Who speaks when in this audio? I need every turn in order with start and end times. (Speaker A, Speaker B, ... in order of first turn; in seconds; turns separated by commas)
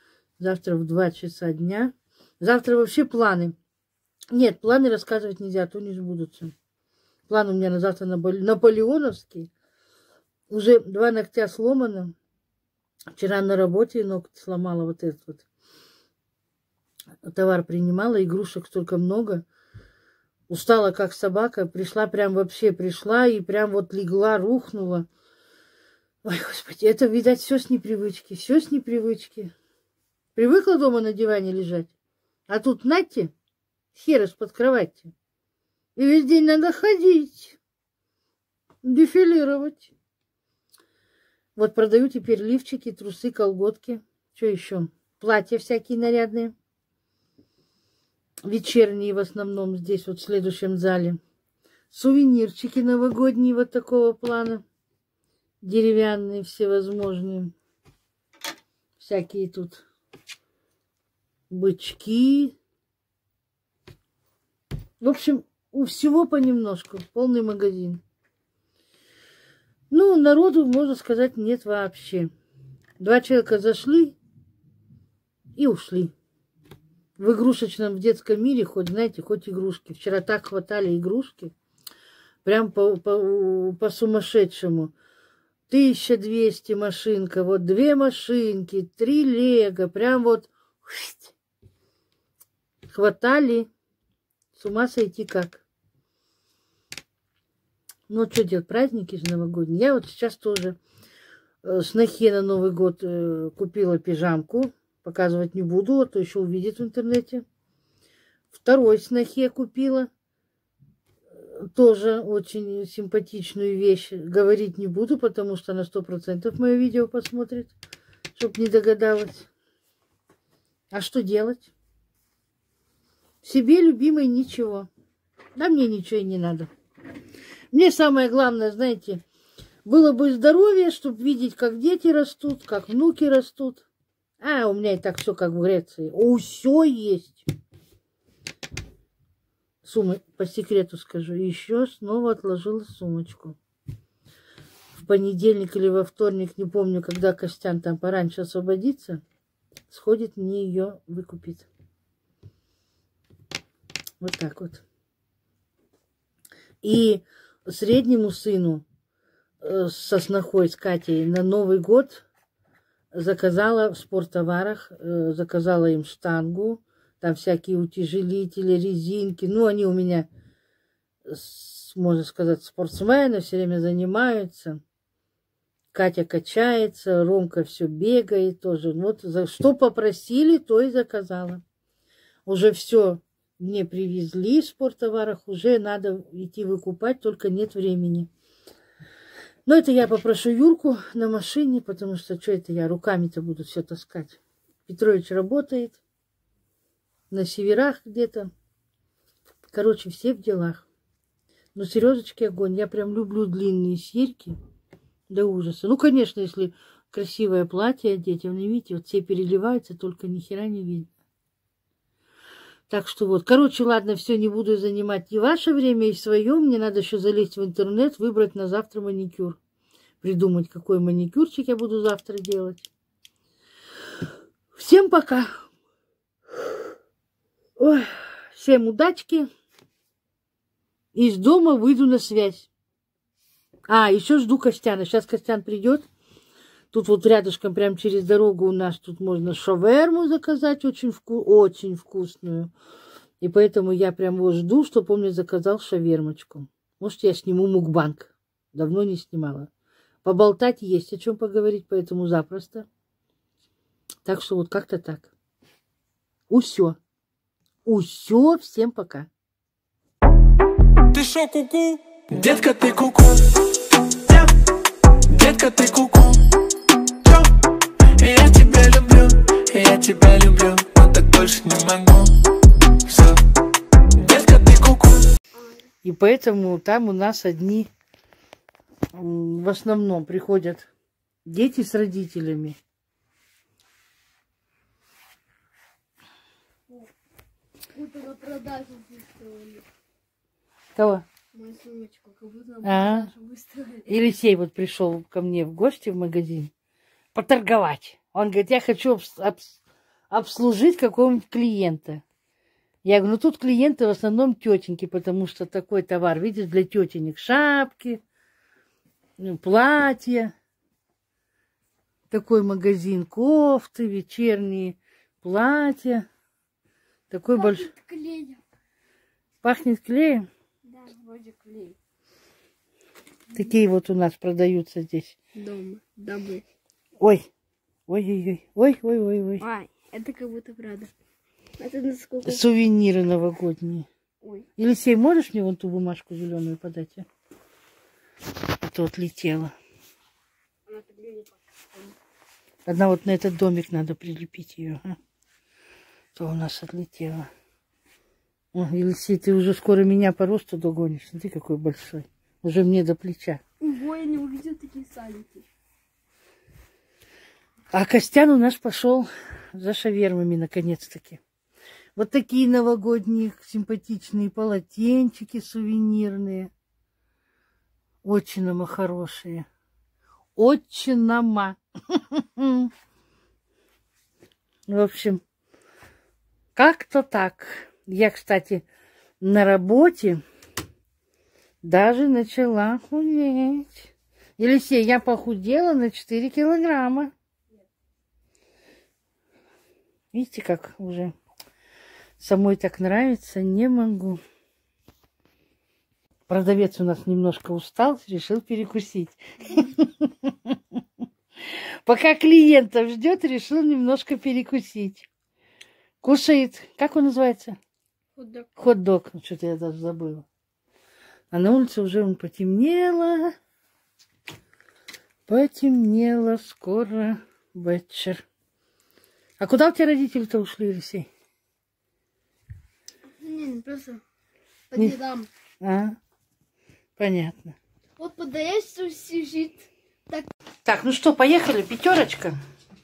Speaker A: 0.4-3.5, Speaker A: 4.3-6.5, Speaker A: 7.3-9.5, Speaker A: 10.5-12.1, Speaker A: 13.1-15.4, Speaker A: 17.2-19.4, Speaker A: 20.5-25.1, Speaker A: 26.2-29.5, Speaker A: 30.3-31.9, Speaker A: 32.5-33.3, Speaker A: 33.9-35.1, Speaker A: 36.0-37.6, Speaker A: 38.8-39.9, Speaker A: 41.5-46.5, Speaker A: 48.4-51.2, Speaker A: 51.9-54.6, Speaker A: 55.6-57.5, Speaker A: 59.0-59.8, Speaker A: 61.5-62.5, Speaker A: 65.0-68.0, Speaker A: 69.9-72.3, Speaker A: 73.0-74.2, Speaker A: 75.5-76.1, Speaker A: 77.2-81.5, Speaker A: 82.4-84.9, Speaker A: 85.7-91.3, Speaker A: 92.9-93.7, Speaker A: 94.5-95.6, Speaker A: 98.1-100.8, Speaker A: 101.6-107.4, Speaker A: 108.5-110.1, Speaker A: 111.4-117.7, Speaker A: 118.3-119.5, Speaker A: 120.9-121.7, Speaker A: 123.4-124.9, Speaker A: 125.5-126.7, Speaker A: 127.7-129.2, Speaker A: 129.8-133.9, Speaker A: 134.4-137.4, Speaker A: 139.8-143.6, Speaker A: 144.9-149.2, Speaker A: 149.9-151.7, Speaker A: 154.2-154.8, Speaker A: 156.8-158.8, Speaker A: 159.6-162.2, Speaker A: 163.1-170.3, Speaker A: 171.3-174.8, Speaker A: 175.9-181.6, Speaker A: 182.4-188.3, Speaker A: 189.7-196.0, Speaker A: 197.3-198.5, Speaker A: 199.7-200.8, Speaker A: 201.7-204.6, Speaker A: 205.3-211.1, Speaker A: 212.9-219.6, Speaker A: 220.2-222.9, Speaker A: 224.7-225.7, Speaker A: 227.8-229.5, Speaker A: 231.1-232.7, Speaker A: 233.9-236.1, Speaker A: 236.9-242.7, Speaker A: 243.4-249.7, Speaker A: 250.2-252.9, Speaker A: 254.2-255.3, Speaker A: 256.5-257.0, Speaker A: 257.8-259.3, Speaker B: 261.1-263.5, Speaker B: 265.3-266.4, Speaker B: 267.2-267.5, Speaker B: 268.2-272.3, Speaker B: 273.1-273.4, Speaker B: 274.2-275.3, Speaker A: 276.0-277.9, Speaker A: 279.1-280.9, Speaker A: 281.4-282.8, Speaker C: 287.9-289.8, Speaker A: 290.9-291.2, Speaker C: 291.5-294.1, Speaker A: 292.8-293.3, Speaker A: 294.1-296.7, Speaker A: 297.3-299.8, Speaker A: 300.3-302.2, Speaker A: 303.0-308.2, Speaker A: 309.4-310.5, Speaker A: 312.3-316.2, Speaker A: 317.3-317.9, Speaker C: 317.5-318.6, Speaker A: 319.6-320.5, Speaker C: 320.9-321.9, Speaker A: 323.5-325.4, Speaker C: 325.6-326.6, Speaker A: 327.2-327.5, Speaker A: 328.1-329.6, Speaker C: 329.6-331.1, Speaker C: 331.8-332.6, Speaker A: 332.4-334.1, Speaker A: 334.8-337.2, Speaker A: 338.8-339.7, Speaker C: 340.9-342.1, Speaker A: 342.9-345.1, Speaker A: 346.4-347.5, Speaker A: 348.7-353.6, Speaker C: 353.8-355.7, Speaker A: 357.9-361.4, Speaker A: 362.1-366.7, Speaker A: 368.2-369.7, Speaker A: 370.6-372.9, Speaker A: 374.9-375.4, Speaker A: 376.7-378.8, Speaker A: 379.4-380.4, Speaker A: 381.8-387.3, Speaker A: 390.3-391.3, Speaker A: 392.4-394.4, Speaker A: 396.5-400.8, Speaker A: 401.7-405.3, Speaker A: 406.2-407.8, Speaker C: 408.4-408.7, Speaker A: 408.8-410.5, Speaker A: 411.5-413.5, Speaker A: 415.5-418.4, Speaker A: 419.6-421.3, Speaker C: 423.4-424.2, Speaker C: 424.9-425.5, Speaker A: 425.8-426.2, Speaker A: 427.2-427.8, Speaker C: 428.2-430.5, Speaker A: 430.8-432.6